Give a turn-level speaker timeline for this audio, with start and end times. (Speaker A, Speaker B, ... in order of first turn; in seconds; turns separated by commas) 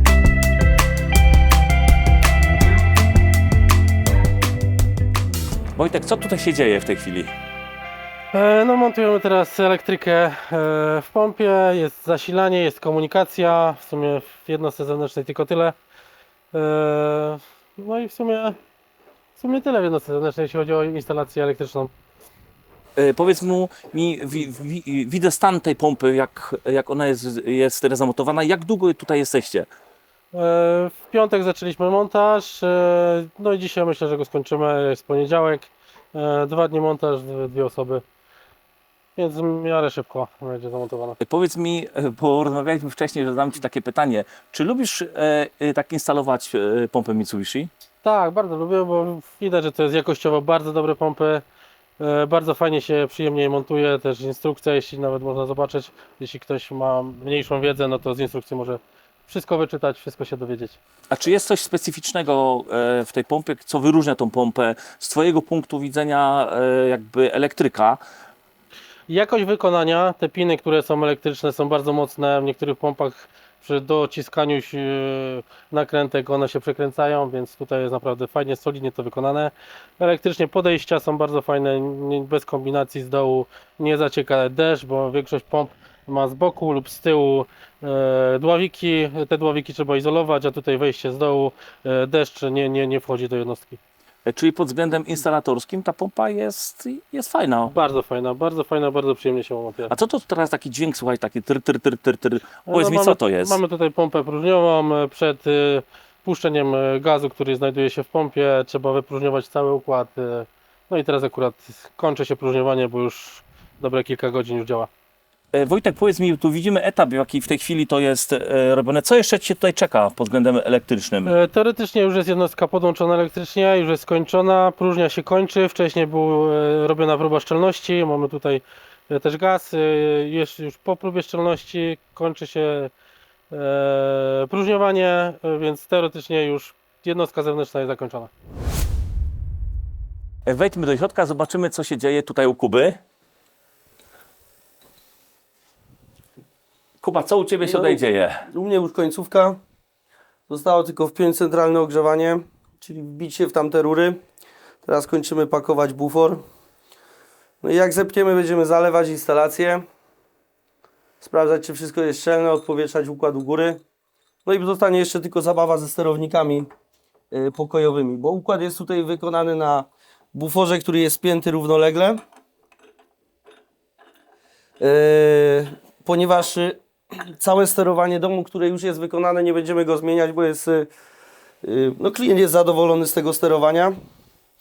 Speaker A: 5.8-7.3, Speaker B: 8.3-15.8, Speaker B: 16.5-18.6, Speaker B: 19.4-21.9, Speaker A: 23.0-29.7, Speaker B: 30.3-38.0, Speaker B: 39.2-41.2, Speaker A: 41.2-47.7, Speaker B: 48.0-51.4, Speaker B: 52.0-60.8, Speaker A: 61.1-68.0, Speaker B: 69.1-93.8, Speaker A: 94.2-97.8, Speaker B: 97.7-99.9, Speaker A: 99.9-103.6, Speaker B: 102.7-114.9, Speaker A: 115.5-121.3, Speaker B: 121.2-132.9, Speaker B: 133.5-138.3, Speaker A: 140.5-143.0, Speaker A: 147.0-148.5, Speaker C: 147.6-149.6, Speaker C: 150.5-154.2, Speaker C: 154.8-156.4, Speaker C: 157.6-159.8, Speaker C: 161.2-163.8, Speaker C: 164.4-166.7, Speaker C: 167.3-172.2, Speaker C: 174.8-176.8, Speaker C: 177.4-180.9, Speaker C: 181.6-183.9